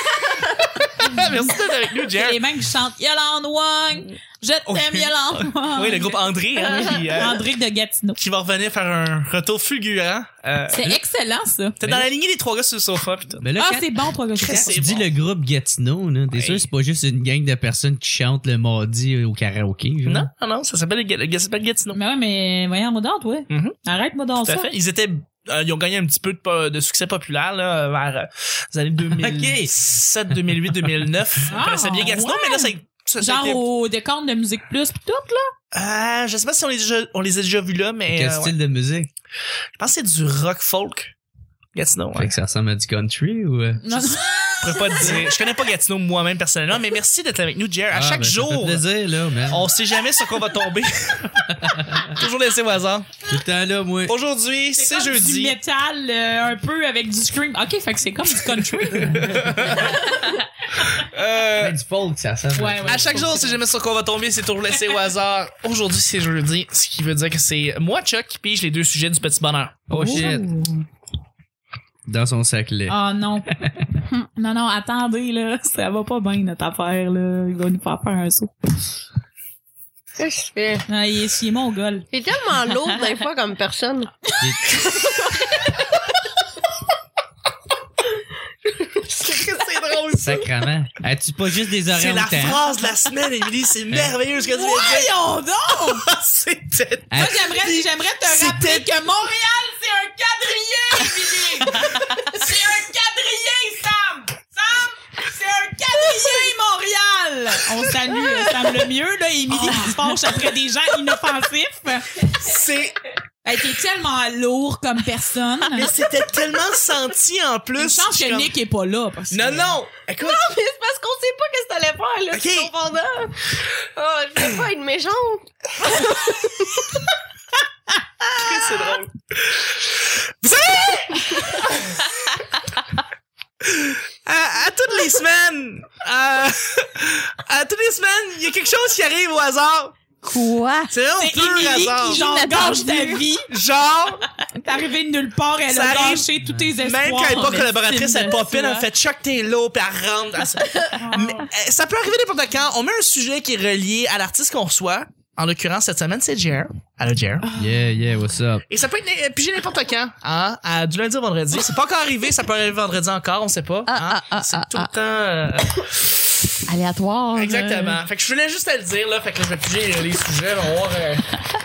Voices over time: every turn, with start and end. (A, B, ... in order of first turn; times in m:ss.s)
0:01.0-0:02.4 A
0:02.2-0:08.2 B
0:04.7-0:07.4 A
0:08.2-0:10.8 A
0:10.7-0:11.8 B
0:11.8-0:13.4 A
0:11.8-0:12.1 C
0:13.4-0:20.3 C
0:13.6-0:14.9 B
0:14.4-0:15.1 A
0:16.3-0:16.6 A
0:20.1-0:22.0 A
0:21.9-0:24.7 B
0:23.5-0:23.8 A
0:24.4-0:33.6 A
0:29.1-0:29.7 C
0:31.5-0:35.5 B
0:35.7-0:38.5 A
0:38.1-0:39.1 C
0:39.8-0:41.1 A
0:41.8-0:42.3 A
0:42.1-0:43.8 C
0:43.8-0:45.2 B
0:43.9-0:48.8 A
0:47.9-0:49.7 C
0:49.5-0:53.2 A
0:51.5-0:52.2 C
0:53.3-0:54.2 C
0:54.1-0:55.6 A
0:54.8-0:59.3 B
0:58.6-1:00.0 A
0:59.1-0:59.9 C
1:00.0-1:00.4 B
1:00.8-1:01.8 A
1:01.6-1:03.2 C
1:02.6-1:03.6 B
1:02.8-1:09.8 A
1:09.9-1:10.4 C
1:09.9-1:10.6 D
1:10.1-1:10.4 B
1:12.1-1:13.0 C
1:12.9-1:13.6 B
1:14.1-1:18.5 B
1:20.2-1:20.9 E
1:20.9-1:22.1 B
1:22.1-1:25.8 E
1:24.4-1:24.8 C
1:28.7-1:30.3 E
1:29.2-1:30.4 A
1:30.1-1:32.6 C
1:31.9-1:35.2 A
1:34.5-1:36.0 B
1:35.7-1:38.9 A
1:37.1-1:37.4 C
1:37.2-1:52.3 B
1:52.4-1:53.0 A
1:53.4-1:56.0 B
1:55.7-1:58.5 A
1:57.8-1:59.8 B
1:59.3-2:00.4 A
2:00.2-2:07.1 E
2:02.3-2:02.7 A
2:08.2-2:09.0 E
2:08.4-2:09.8 A
2:10.4-2:12.1 A
2:13.6-2:20.1 A
2:20.2-2:20.9 D
2:20.9-2:22.2 A
2:21.2-2:23.5 B
2:22.0-2:23.3 D
2:23.5-2:24.2 A
2:24.6-2:28.0 B
2:25.7-2:26.3 A
2:26.4-2:26.7 C
2:26.8-2:37.5 A
2:27.3-2:28.8 D
2:31.0-2:31.3 D
2:31.0-2:31.4 B
2:37.4-2:37.8 D
2:37.6-2:38.6 C
2:38.7-2:46.5 A
2:43.9-2:44.9 D
2:46.7-2:48.0 D
2:47.3-2:51.3 A